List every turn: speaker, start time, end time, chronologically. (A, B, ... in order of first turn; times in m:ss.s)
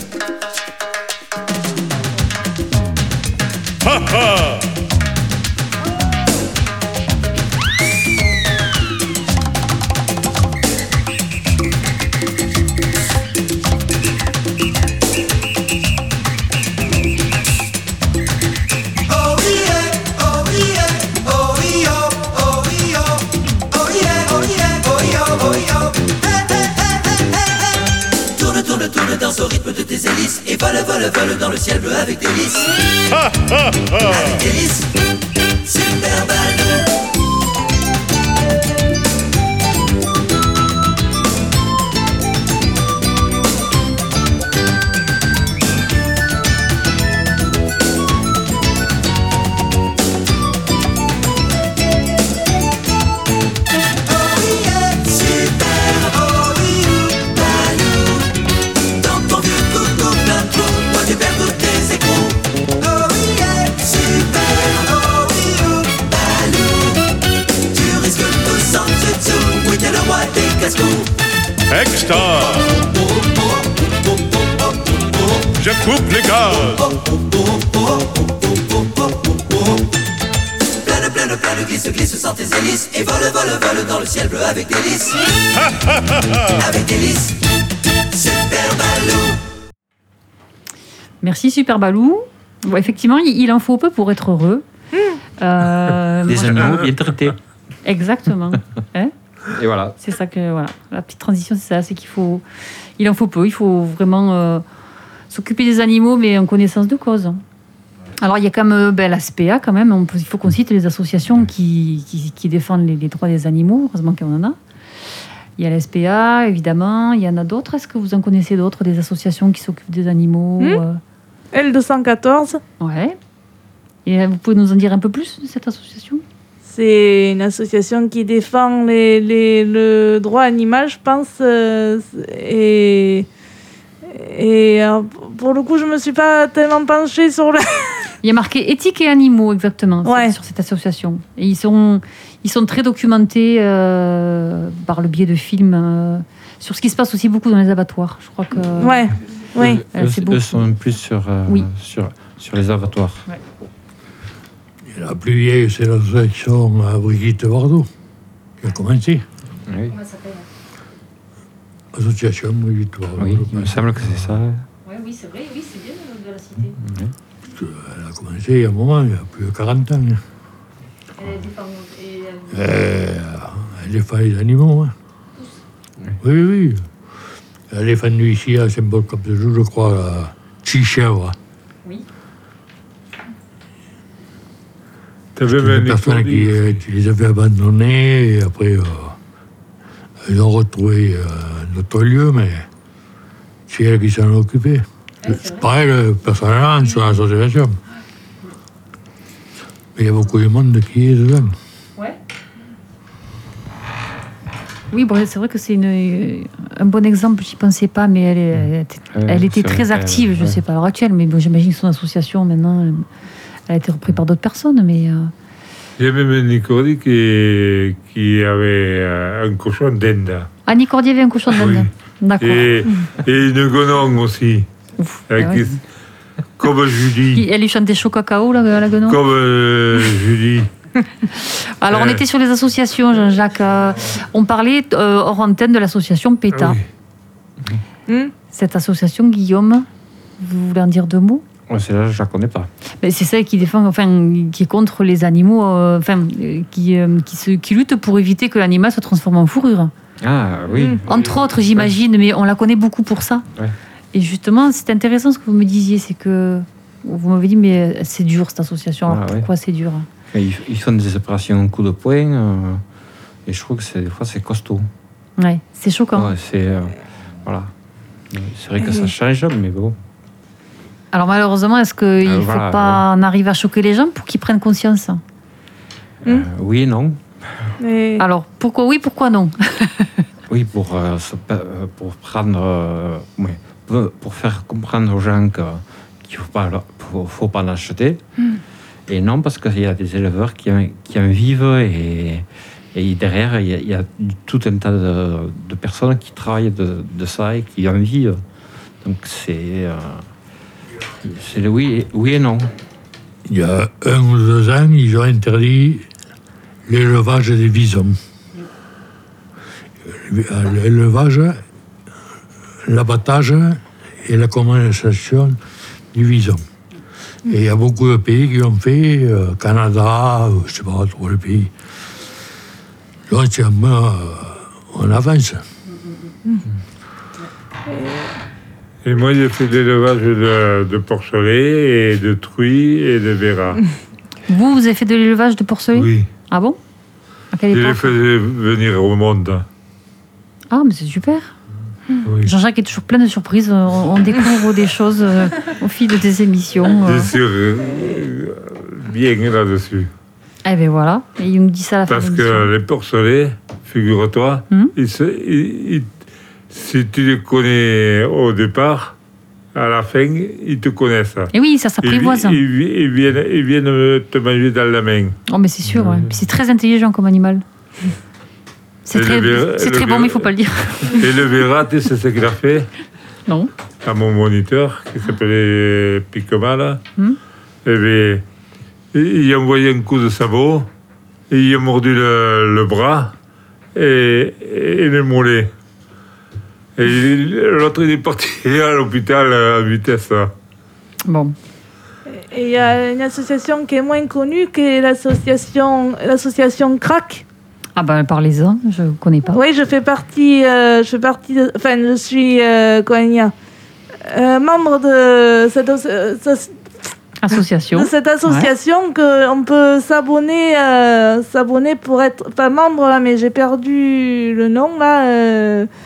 0:03.8-0:04.6 A
0:31.3-0:32.1 B
0:33.1-0:34.5 A
0:59.3-1:01.9 B
1:07.9-1:11.0 B
1:11.7-1:12.8 A
1:15.5-1:16.9 A
1:21.7-1:24.7 B
1:25.6-1:26.7 A
1:31.2-1:34.6 C
1:35.4-1:36.8 C
1:36.2-1:37.4 D
1:37.8-1:39.1 C
1:39.5-1:40.0 D
1:40.0-1:42.4 C
1:43.0-1:44.6 C
1:45.3-1:47.4 C
1:48.2-1:54.6 C
1:55.6-2:01.0 C
2:01.5-2:02.6 E
2:02.8-2:03.2 C
2:04.0-2:06.2 C
2:06.6-2:13.3 E
2:14.0-2:18.1 E
2:18.2-2:29.1 C
2:20.0-2:20.3 E
2:28.8-2:29.8 E
2:29.6-2:33.2 D
2:29.9-2:30.7 C
2:34.9-2:37.9 F
2:38.6-2:39.2 F
2:39.7-2:39.9 D
2:39.9-2:40.4 C
2:41.9-2:44.3 F
2:43.2-2:44.6 D
2:44.8-2:46.8 C
2:46.8-2:47.1 D
2:47.5-2:50.2 F
2:51.2-2:52.6 C
2:52.5-2:54.9 F
2:56.2-2:56.9 F
2:57.7-3:01.4 F
3:05.4-3:06.8 G
3:05.4-3:09.2 F
3:10.2-3:12.6 F
3:13.7-3:17.8 F
3:15.2-3:15.6 C
3:20.0-3:21.5 F
3:24.9-3:33.0 C
3:28.5-3:30.6 D
3:33.7-3:35.3 C
3:36.0-3:40.5 G
3:40.6-3:42.7 C
3:41.6-3:44.7 G
3:45.0-3:45.7 C
3:45.3-3:45.8 G
3:46.6-3:47.4 G
3:47.4-3:49.2 C
3:49.1-3:50.7 G
3:51.3-3:56.8 C
3:51.9-3:52.2 G
3:56.5-3:56.8 G
3:58.1-3:58.3 E
3:58.5-3:59.9 C
4:00.4-4:01.4 C
4:01.7-4:02.7 D
4:03.0-4:09.9 C
4:10.2-4:11.2 D
4:10.7-4:11.0 E
4:11.0-4:13.5 C
4:14.1-4:20.1 C
4:19.1-4:19.5 D
4:20.3-4:22.8 D
4:23.5-4:24.9 D
4:25.4-4:26.3 C
4:26.1-4:27.7 D
4:28.3-4:30.0 D
4:31.1-4:35.2 C
4:32.2-4:33.0 D
4:36.2-4:37.7 D
4:37.8-4:38.2 E
4:38.2-4:40.2 C
4:40.5-4:48.2 D
4:49.1-4:58.4 D
4:59.0-5:00.3 D
5:01.2-5:02.7 D
5:03.5-5:06.1 F
5:06.9-5:08.2 F
5:10.1-5:11.6 F
5:12.8-5:15.6 F
5:16.1-5:16.6 F
5:17.4-5:21.7 F
5:23.3-5:25.6 F
5:27.9-5:28.3 E
5:29.0-5:33.8 G
5:34.5-5:36.8 C
5:35.9-5:36.3 G
5:37.5-5:38.1 C
5:37.7-5:39.6 G
5:40.7-5:41.5 C
5:42.2-5:42.5 G
5:42.4-5:47.3 C
5:47.0-5:50.1 G
5:50.6-5:52.7 C
5:52.1-5:56.1 G
5:56.7-5:59.1 G
5:59.7-6:01.5 G
6:01.5-6:02.6 C
6:02.0-6:05.4 G
6:05.5-6:07.6 C
6:05.8-6:06.4 D
6:09.0-6:11.2 C
6:09.1-6:10.5 G
6:11.0-6:12.9 G
6:14.0-6:17.0 G
6:17.8-6:18.4 G
6:19.1-6:20.9 G
6:21.5-6:23.3 G
6:23.9-6:25.7 G
6:27.0-6:30.5 G
6:31.2-6:31.5 C
6:32.3-6:37.4 E
6:38.0-6:39.6 C
6:39.5-6:43.5 E
6:44.2-6:46.9 E
6:47.4-6:48.7 C
6:47.9-6:55.9 E